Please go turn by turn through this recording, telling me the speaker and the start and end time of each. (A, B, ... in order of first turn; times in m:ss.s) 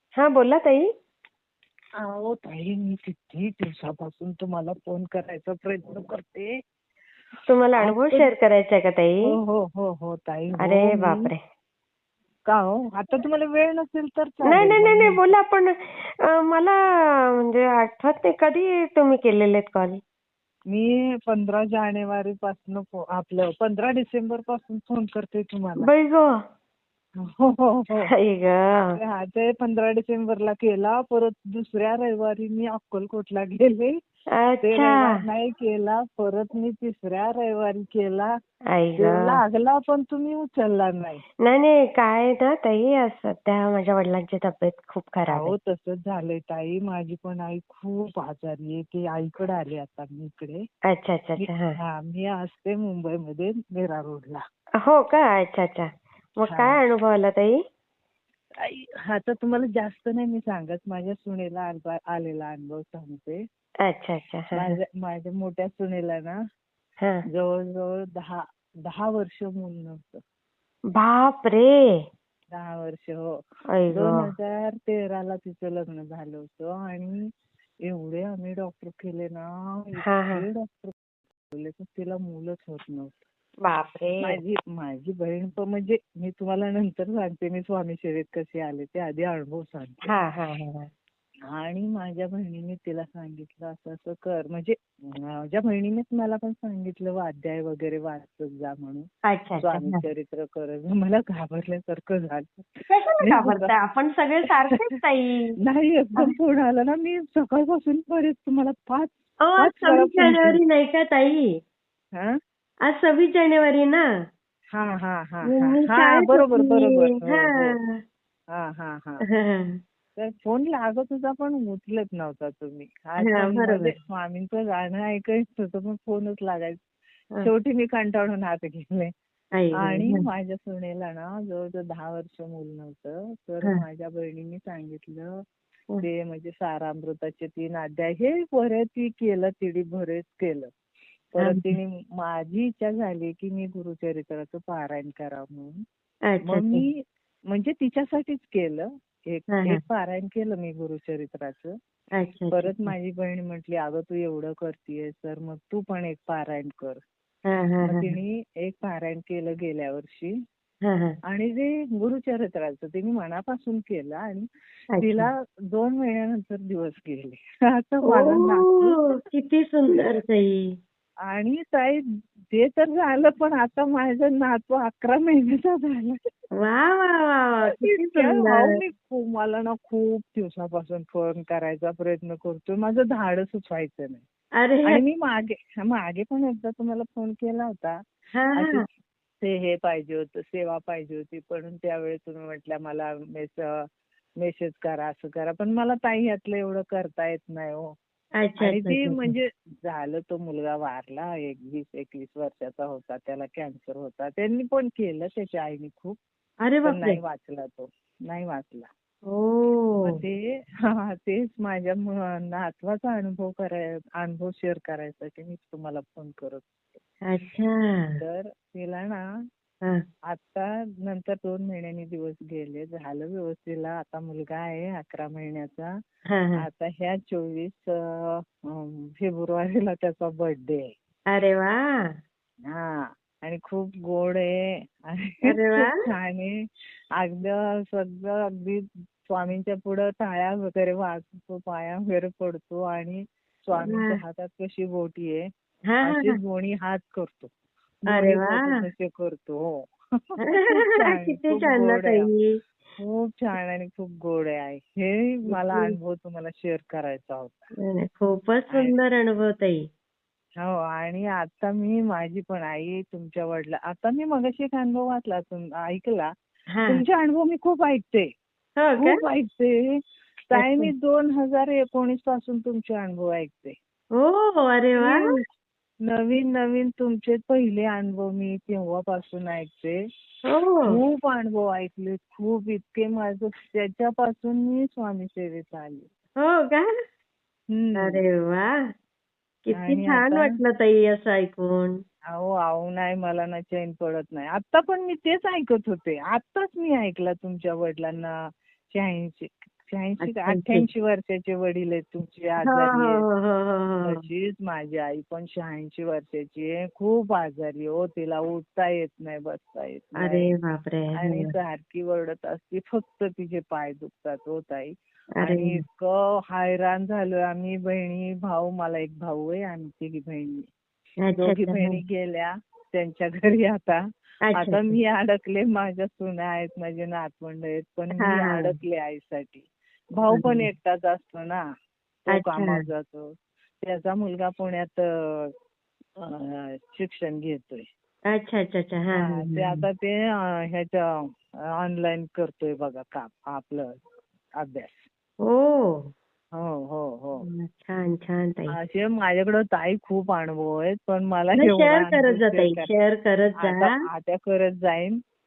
0:00.2-0:00.9 A
0:02.0-0:06.5 B
0:07.5-0:09.2 A
0:07.8-0:08.3 B
0:09.2-0:11.3 B
0:10.6-0:11.4 A
0:12.5-0:15.3 B
0:14.5-0:16.8 A
0:17.4-0:20.0 A
0:20.7-0:25.9 B
0:25.8-0:26.3 A
0:27.2-0:28.1 B
0:28.2-0:29.0 A
0:28.9-0:34.0 B
0:34.4-0:35.1 A
0:34.6-0:38.3 B
0:38.7-0:39.4 A
0:39.0-0:41.2 B
0:41.5-0:45.5 A
0:45.3-0:50.6 B
0:50.9-0:51.8 A
0:51.4-0:54.4 B
0:54.8-0:55.9 A
0:56.4-0:57.6 A
0:56.5-0:56.8 B
0:58.6-1:03.4 B
1:03.8-1:04.7 A
1:04.5-1:06.4 B
1:07.3-1:10.2 B
1:11.0-1:11.8 A
1:12.5-1:13.4 B
1:13.7-1:14.3 A
1:13.9-1:17.3 B
1:17.8-1:21.0 B
1:20.0-1:20.4 A
1:21.5-1:23.3 B
1:23.6-1:24.4 A
1:24.2-1:30.1 B
1:30.1-1:30.9 A
1:31.5-1:39.1 B
1:39.3-1:40.0 A
1:39.6-1:42.7 B
1:42.9-1:45.5 A
1:43.2-1:43.7 B
1:44.5-1:44.8 B
1:45.7-1:50.6 B
1:49.4-1:51.5 A
1:52.9-1:54.0 A
1:54.7-1:57.8 B
1:55.5-1:57.9 A
1:58.5-1:59.2 B
1:59.3-1:59.8 A
2:00.2-2:06.8 B
2:03.2-2:03.9 A
2:07.4-2:09.1 B
2:09.6-2:10.2 A
2:09.8-2:15.4 B
2:16.0-2:20.7 B
2:21.4-2:25.8 B
2:21.4-2:21.7 A
2:26.3-2:26.8 A
2:26.5-2:31.8 B
2:29.5-2:29.8 A
2:32.2-2:32.9 A
2:32.5-2:37.0 B
2:37.5-2:38.1 A
2:37.9-2:40.4 B
2:40.8-2:41.1 A
2:41.3-2:44.5 B
2:44.9-2:45.3 A
2:45.0-2:49.2 B
2:48.1-2:50.8 A
2:51.3-2:56.2 B
2:56.6-2:58.8 A
2:57.7-3:04.2 B
3:04.6-3:05.0 A
3:04.9-3:08.0 B
3:08.4-3:08.8 A
3:08.6-3:08.8 B
3:09.4-3:13.9 B
3:14.4-3:17.9 B
3:18.4-3:19.3 A
3:18.6-3:26.2 B
3:26.6-3:27.2 A
3:26.8-3:28.9 B
3:29.3-3:30.2 A
3:30.0-3:37.0 B
3:37.3-3:38.2 A
3:38.2-3:39.2 B
3:40.3-3:45.9 B
3:46.3-3:46.6 A
3:46.6-3:50.9 B
3:51.3-3:51.8 A
3:52.7-3:56.6 B
3:55.4-3:56.0 A
3:57.2-4:05.5 B
4:03.8-4:04.2 A
4:05.9-4:06.4 A
4:06.0-4:07.5 B
4:08.0-4:09.9 B
4:08.1-4:08.8 A
4:10.4-4:12.6 A
4:10.5-4:12.3 B
4:13.0-4:17.7 B
4:15.5-4:15.9 A
4:17.8-4:19.8 A
4:18.7-4:19.0 B
4:20.6-4:26.3 B
4:26.8-4:27.0 A
4:26.9-4:28.3 B
4:28.8-4:29.2 A
4:29.0-4:30.0 B
4:30.5-4:33.8 B
4:30.6-4:30.9 A
4:34.2-4:35.4 A
4:35.0-4:35.4 B
4:36.0-4:40.0 B
4:40.5-4:41.0 A
4:40.9-4:46.1 B
4:46.4-4:46.9 A
4:47.7-4:48.2 B
4:48.0-4:48.7 A
4:49.7-4:52.0 A
4:49.8-4:50.5 B
4:52.3-5:03.2 B
5:00.2-5:00.8 A
5:02.7-5:04.2 A
5:04.0-5:10.5 B
5:10.2-5:11.5 A
5:11.2-5:20.7 B
5:15.4-5:15.8 A
5:21.3-5:22.0 A
5:21.4-5:24.0 B
5:24.5-5:24.9 A
5:24.6-5:31.6 B
5:28.2-5:28.7 A
5:30.3-5:30.7 A
5:32.3-5:33.3 B
5:32.3-5:32.8 A
5:33.8-5:35.5 B
5:36.2-5:37.9 B
5:38.3-5:39.8 A
5:39.2-5:41.1 B
5:41.8-5:44.0 B
5:44.6-5:45.1 B
5:45.4-5:46.1 A
5:46.6-5:47.4 B
5:47.4-5:48.8 A
5:48.7-5:52.9 B
5:51.6-5:54.0 A
5:53.6-5:55.2 B